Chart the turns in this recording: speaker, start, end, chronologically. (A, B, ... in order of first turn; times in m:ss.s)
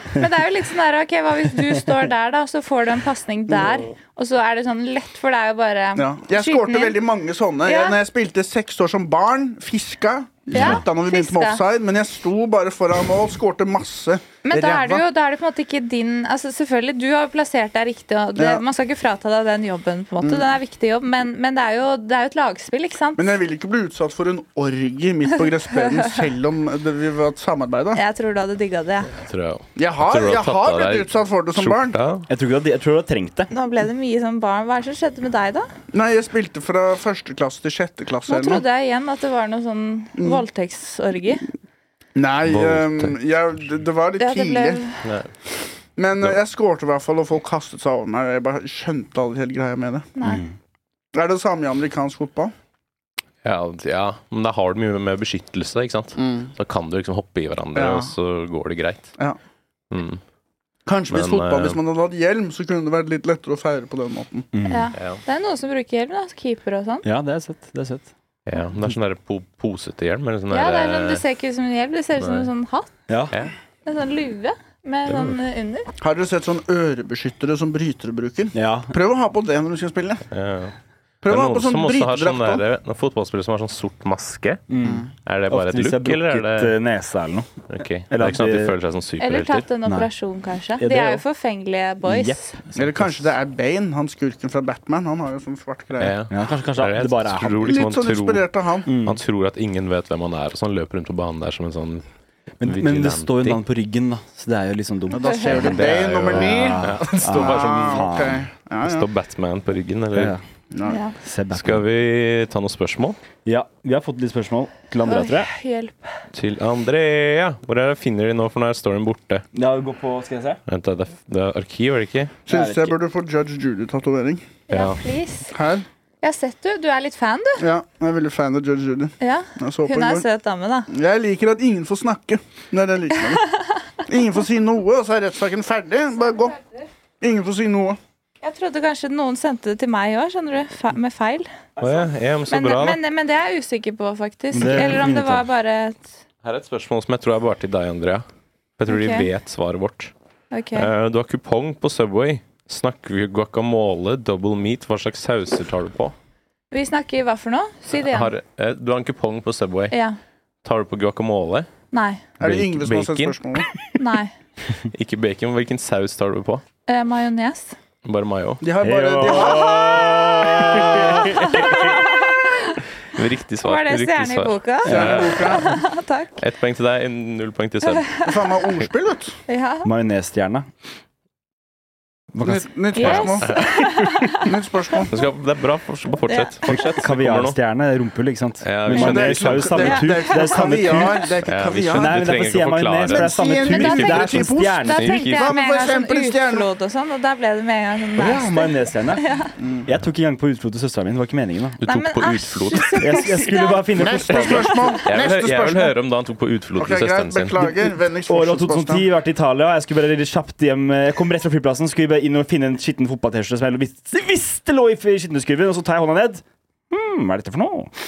0:00.1-0:07.0 A
0:06.0-0:15.0 B
0:07.6-0:08.0 A
0:10.5-0:11.6 A
0:14.4-0:23.3 A
0:18.4-0:18.6 B
0:20.2-0:20.5 B
0:23.2-0:28.0 B
0:27.9-0:29.1 A
0:29.2-0:32.3 C
0:29.8-0:32.0 B
0:32.3-0:33.5 D
0:33.5-0:35.7 A
0:35.9-0:38.6 B
0:38.3-0:41.5 A
0:40.2-0:40.4 B
0:42.1-0:44.8 B
0:42.5-0:43.1 C
0:44.2-0:45.0 A
0:45.0-0:45.3 C
0:46.0-0:50.1 B
0:50.2-0:50.4 A
0:50.2-0:50.5 D
0:51.1-0:52.5 B
0:53.4-0:59.1 C
0:56.2-0:56.5 B
0:57.7-0:58.1 B
0:59.9-1:00.2 C
1:00.8-1:04.5 B
1:01.1-1:01.8 C
1:04.5-1:04.9 D
1:04.6-1:07.0 A
1:04.9-1:05.2 C
1:07.0-1:08.1 D
1:08.4-1:11.2 C
1:10.5-1:12.9 A
1:12.2-1:12.5 C
1:13.1-1:13.3 D
1:13.8-1:15.9 A
1:15.1-1:15.4 C
1:16.0-1:20.2 B
1:18.5-1:18.9 D
1:20.3-1:24.6 C
1:21.2-1:22.6 B
1:24.7-1:28.7 D
1:24.8-1:25.1 B
1:25.2-1:26.7 C
1:27.7-1:29.6 C
1:29.2-1:32.5 A
1:29.8-1:30.1 D
1:30.8-1:31.2 D
1:32.0-1:33.3 D
1:32.7-1:36.1 B
1:36.0-1:42.0 C
1:36.3-1:37.7 D
1:37.6-1:38.9 B
1:38.8-1:39.2 D
1:42.6-1:48.5 D
1:42.6-1:43.6 C
1:45.1-1:49.0 B
1:45.2-1:45.5 A
1:45.5-1:48.1 C
1:48.8-1:50.4 C
1:50.1-1:50.4 D
1:50.7-1:51.0 B
1:50.8-1:51.2 A
1:51.2-1:51.8 D
1:51.5-1:53.2 C
1:53.4-1:55.5 D
1:55.0-1:56.1 A
1:56.3-1:59.4 C
1:59.5-2:00.6 D
2:00.7-2:02.4 C
2:02.4-2:04.4 B
2:02.5-2:02.9 D
2:04.7-2:05.5 A
2:04.7-2:05.0 C
2:05.5-2:05.8 B
2:06.2-2:07.6 A
2:07.6-2:10.2 B
2:09.2-2:10.9 A
2:10.9-2:13.5 B
2:14.0-2:16.6 B
2:17.2-2:18.0 B
2:18.4-2:21.5 A
2:21.8-2:23.0 C
2:22.5-2:26.2 A
2:24.5-2:25.4 D
2:26.4-2:28.2 C
2:28.8-2:30.1 C
2:28.9-2:29.3 A
2:30.5-2:30.9 A
2:30.7-2:36.1 C
2:36.7-2:38.3 A
2:38.0-2:39.9 C
2:39.9-2:40.2 A
2:40.6-2:41.7 C
2:41.9-2:42.2 A
2:42.4-2:43.7 B
2:42.4-2:43.4 C
2:43.9-2:44.3 A
2:44.9-2:46.6 C
2:46.9-2:47.8 A
2:48.0-2:48.6 C
2:48.6-2:51.3 B
2:48.8-2:51.8 D
2:49.2-2:52.8 A
2:53.1-2:55.8 C
2:53.6-2:56.4 A
2:54.8-2:55.2 D
2:54.8-2:55.7 B
2:56.4-2:58.1 C
2:57.8-2:58.2 A
2:58.2-2:59.4 B
2:59.5-2:59.9 A
2:59.8-3:00.7 D
3:02.3-3:02.7 D
3:02.4-3:03.5 B
3:02.9-3:04.5 A
3:03.0-3:04.4 C
3:04.3-3:05.2 B
3:05.1-3:07.6 C
3:06.3-3:06.8 A
3:06.6-3:11.3 D
3:08.6-3:10.0 C
3:08.9-3:12.2 B
3:09.8-3:11.0 A
3:11.4-3:14.4 C
3:11.9-3:15.1 D
3:13.0-3:16.6 B
3:13.6-3:19.5 A
3:15.0-3:15.5 C
3:18.2-3:19.2 D
3:19.6-3:19.8 B
3:19.8-3:21.8 D
3:21.8-3:23.4 C
3:21.8-3:24.8 A
3:23.0-3:24.8 D
3:23.9-3:25.9 B
3:24.3-3:27.6 C
3:26.8-3:29.0 B
3:27.6-3:37.9 D